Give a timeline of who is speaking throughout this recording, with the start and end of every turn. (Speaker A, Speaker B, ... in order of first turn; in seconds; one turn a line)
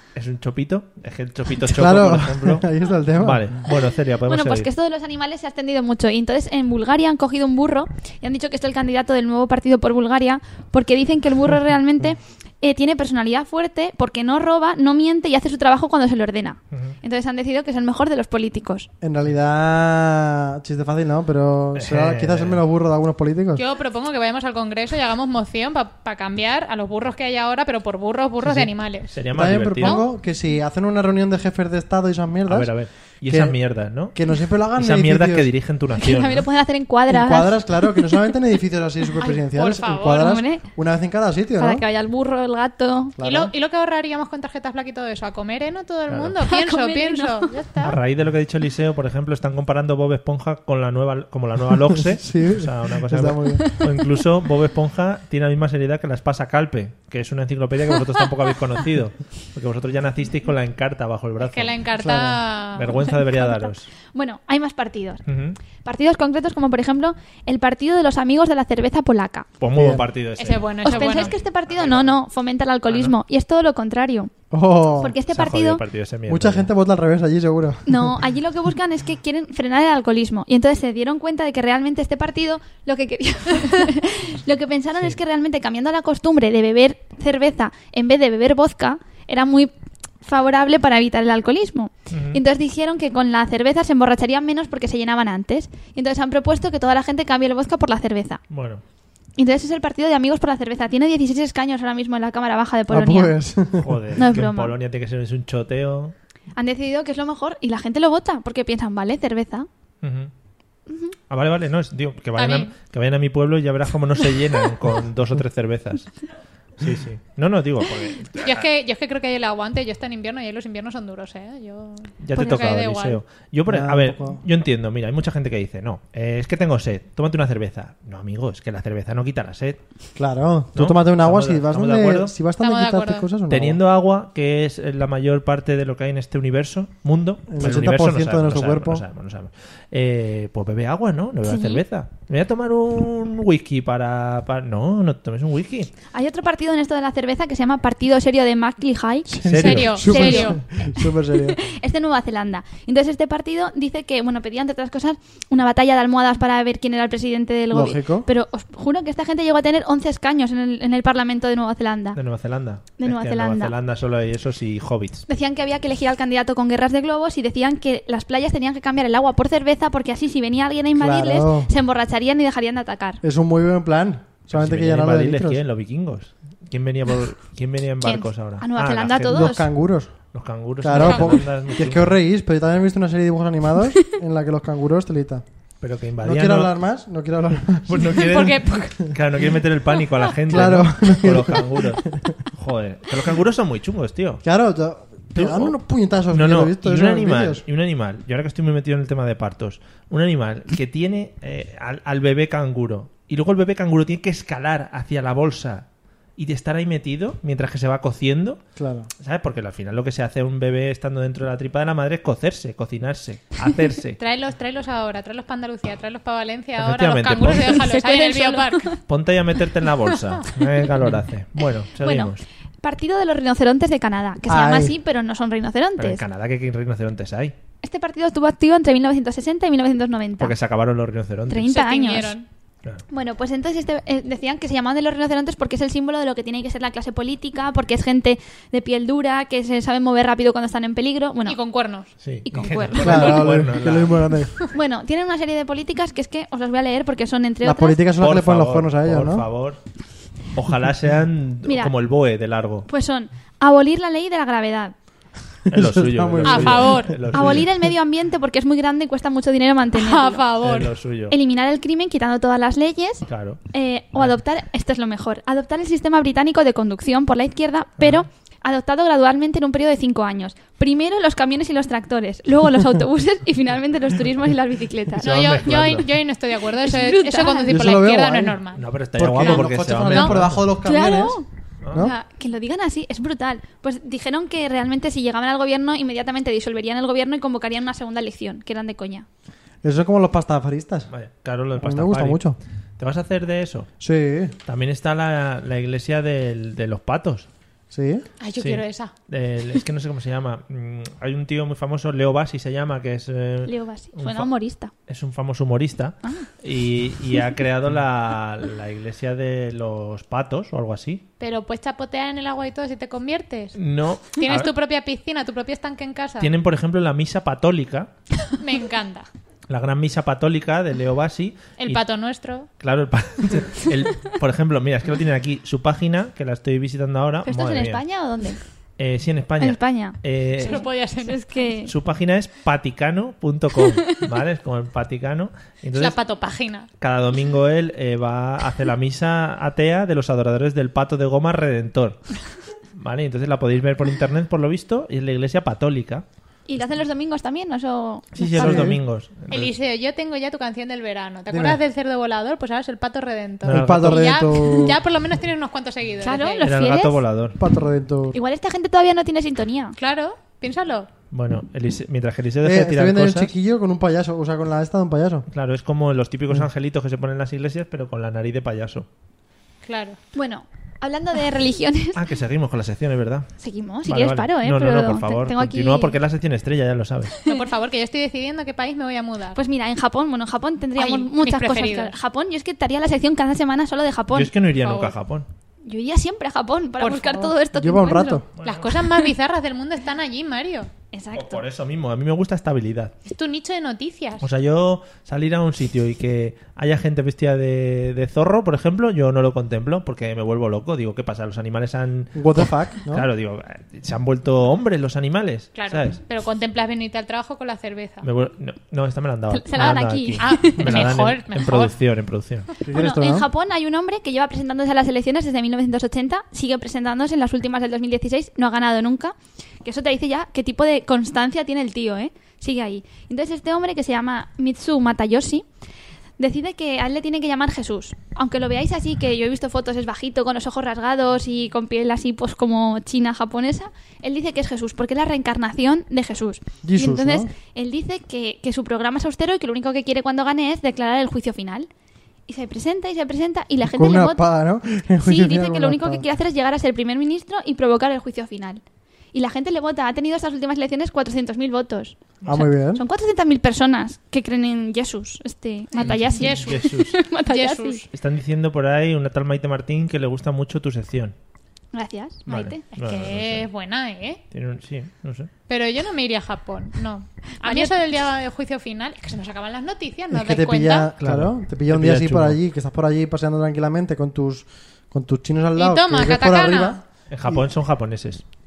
Speaker A: 0.1-2.6
Speaker B: 1.6-3.5
Speaker A: 3.2-4.7
Speaker C: 4.3-18.9
Speaker B: 19.0-23.6
Speaker A: 21.7-22.6
Speaker D: 23.6-29.2
Speaker A: 28.4-30.0
Speaker B: 29.3-35.5
Speaker D: 29.8-30.1
Speaker A: 32.5-34.1
Speaker A: 34.7-36.5
Speaker C: 36.0-38.3
Speaker B: 37.1-41.8
Speaker D: 39.2-40.4
Speaker C: 40.1-40.6
Speaker C: 41.6-43.1
Speaker B: 43.2-43.5
Speaker D: 43.2-48.0
Speaker A: 46.1-46.3
Speaker C: 46.4-47.5
Speaker A: 47.8-61.8
Speaker B: 52.1-53.8
Speaker C: 53.6-53.8
Speaker D: 61.4-63.1
Speaker B: 62.0-62.4
Speaker A: 62.8-63.9
Speaker C: 63.0-65.2
Speaker A: 65.2-65.6
Speaker C: 65.8-69.5
Speaker A: 69.6-72.2
Speaker B: 69.7-70.0
Speaker D: 70.4-71.3
Speaker C: 70.8-74.3
Speaker A: 72.9-73.1
Speaker B: 74.5-75.2
Speaker C: 75.0-75.8
Speaker A: 75.3-76.7
Speaker B: 76.3-78.2
Speaker C: 77.9-89.7
Speaker C: 90.2-98.4
Speaker A: 92.1-92.4
Speaker A: 98.5-98.8
Speaker C: 99.4-103.4
Speaker B: 102.9-104.0
Speaker A: 103.8-106.1
Speaker C: 104.2-104.7
Speaker C: 106.6-109.7
Speaker A: 110.0-110.3
Speaker C: 110.9-111.1
Speaker A: 111.3-118.7
Speaker D: 112.4-112.7
Speaker D: 118.4-123.2
Speaker A: 122.2-129.8
Speaker B: 123.7-124.4
Speaker B: 130.1-133.8
Speaker A: 130.7-132.3
Speaker D: 132.6-133.3
Speaker A: 133.5-145.9
Speaker B: 137.5-139.0
Speaker C: 141.4-141.8
Speaker C: 146.1-149.3
Speaker B: 149.3-151.6
Speaker A: 149.4-150.1
Speaker D: 149.6-150.6
Speaker C: 150.1-162.2
Speaker B: 157.7-158.3
Speaker A: 162.1-165.2
Speaker C: 163.0-163.7
Speaker C: 165.3-173.2
Speaker B: 171.0-171.7
Speaker B: 173.2-175.6
Speaker A: 174.5-179.6
Speaker C: 178.0-179.7
Speaker B: 179.3-185.4
Speaker A: 180.3-182.1
Speaker D: 180.9-181.4
Speaker A: 185.8-186.7
Speaker B: 186.2-188.1
Speaker A: 187.8-194.4
Speaker D: 188.0-189.0
Speaker B: 190.5-192.3
Speaker B: 194.4-197.6
Speaker A: 195.4-195.8
Speaker A: 196.3-208.6
Speaker B: 208.8-209.1
Speaker A: 209.2-214.2
Speaker D: 214.2-218.9
Speaker A: 216.8-217.8
Speaker C: 217.7-219.0
Speaker A: 219.0-222.4
Speaker C: 222.0-226.2
Speaker B: 224.5-224.9
Speaker A: 226.0-227.5
Speaker C: 227.8-230.5
Speaker A: 230.4-231.7
Speaker C: 231.5-232.4
Speaker D: 231.7-232.5
Speaker C: 233.1-241.6
Speaker D: 241.4-242.1
Speaker A: 242.2-244.4
Speaker C: 242.4-243.4
Speaker B: 243.0-244.5
Speaker C: 244.7-248.0
Speaker B: 247.6-249.5
Speaker A: 248.2-252.9
Speaker C: 251.7-251.9
Speaker C: 252.9-254.9
Speaker B: 255.7-257.6
Speaker A: 255.7-257.7
Speaker D: 256.4-257.2
Speaker C: 257.3-260.4
Speaker D: 259.9-260.9
Speaker A: 260.6-261.4
Speaker C: 261.3-275.3
Speaker A: 263.3-263.6
Speaker A: 268.0-268.3
Speaker D: 275.2-280.4
Speaker A: 275.2-276.1
Speaker C: 276.8-277.8
Speaker B: 277.7-278.6
Speaker A: 278.7-280.6
Speaker B: 279.1-282.1
Speaker C: 280.8-289.2
Speaker B: 289.8-291.1
Speaker A: 291.1-292.4
Speaker B: 291.8-292.6
Speaker A: 293.0-293.9
Speaker B: 294.0-294.6
Speaker A: 294.6-297.5
Speaker B: 297.9-298.2
Speaker D: 298.4-299.1
Speaker A: 298.6-304.5
Speaker C: 303.6-304.9
Speaker A: 305.1-311.2
Speaker D: 311.4-316.5
Speaker A: 313.8-314.7
Speaker A: 316.4-318.1
Speaker D: 318.6-319.3
Speaker A: 319.7-322.0
Speaker D: 321.8-322.7
Speaker A: 322.8-328.0
Speaker C: 327.4-328.6
Speaker A: 329.0-330.8
Speaker C: 329.6-331.9
Speaker D: 330.6-331.7
Speaker A: 331.9-336.2
Speaker D: 336.0-336.9
Speaker A: 337.0-342.4
Speaker A: 342.9-346.2
Speaker C: 346.7-348.9
Speaker A: 348.4-349.7
Speaker B: 348.6-349.0
Speaker D: 349.5-356.6
Speaker B: 351.5-351.8
Speaker B: 353.6-355.0
Speaker A: 353.7-354.4
Speaker C: 356.2-357.2
Speaker A: 356.6-357.6
Speaker B: 357.6-358.4
Speaker C: 358.3-359.9
Speaker D: 360.0-361.1
Speaker A: 361.3-363.5
Speaker B: 362.6-365.4
Speaker A: 365.5-369.1
Speaker D: 369.8-370.2
Speaker C: 370.4-372.2
Speaker A: 372.1-373.5
Speaker C: 373.6-376.1
Speaker A: 374.1-377.3
Speaker D: 377.4-379.6
Speaker C: 379.6-384.5
Speaker D: 381.0-382.2
Speaker A: 384.3-385.4
Speaker D: 384.8-385.1
Speaker C: 385.9-388.4
Speaker D: 387.0-387.5
Speaker B: 387.7-388.4
Speaker A: 388.6-388.9
Speaker D: 388.6-390.9
Speaker C: 391.1-391.6
Speaker A: 391.4-393.1
Speaker D: 393.2-394.5
Speaker A: 394.4-406.1
Speaker B: 402.4-403.3
Speaker D: 405.7-408.3
Speaker A: 408.2-412.7
Speaker C: 409.5-411.0
Speaker D: 409.8-411.9
Speaker B: 412.8-413.5
Speaker C: 412.9-425.6
Speaker C: 426.4-441.9
Speaker B: 436.8-437.5
Speaker C: 442.5-444.4
Speaker B: 443.8-446.2
Speaker C: 445.2-448.8
Speaker C: 449.3-458.0
Speaker B: 452.5-453.0
Speaker D: 455.9-456.9
Speaker A: 456.0-457.2
Speaker D: 457.4-458.1
Speaker A: 458.1-461.4
Speaker C: 461.9-462.8
Speaker A: 462.5-463.7
Speaker D: 462.9-464.4
Speaker A: 464.5-465.5
Speaker D: 465.7-471.1
Speaker C: 467.6-467.9
Speaker B: 470.3-477.6
Speaker A: 471.2-472.6
Speaker D: 475.8-477.0
Speaker A: 477.3-478.4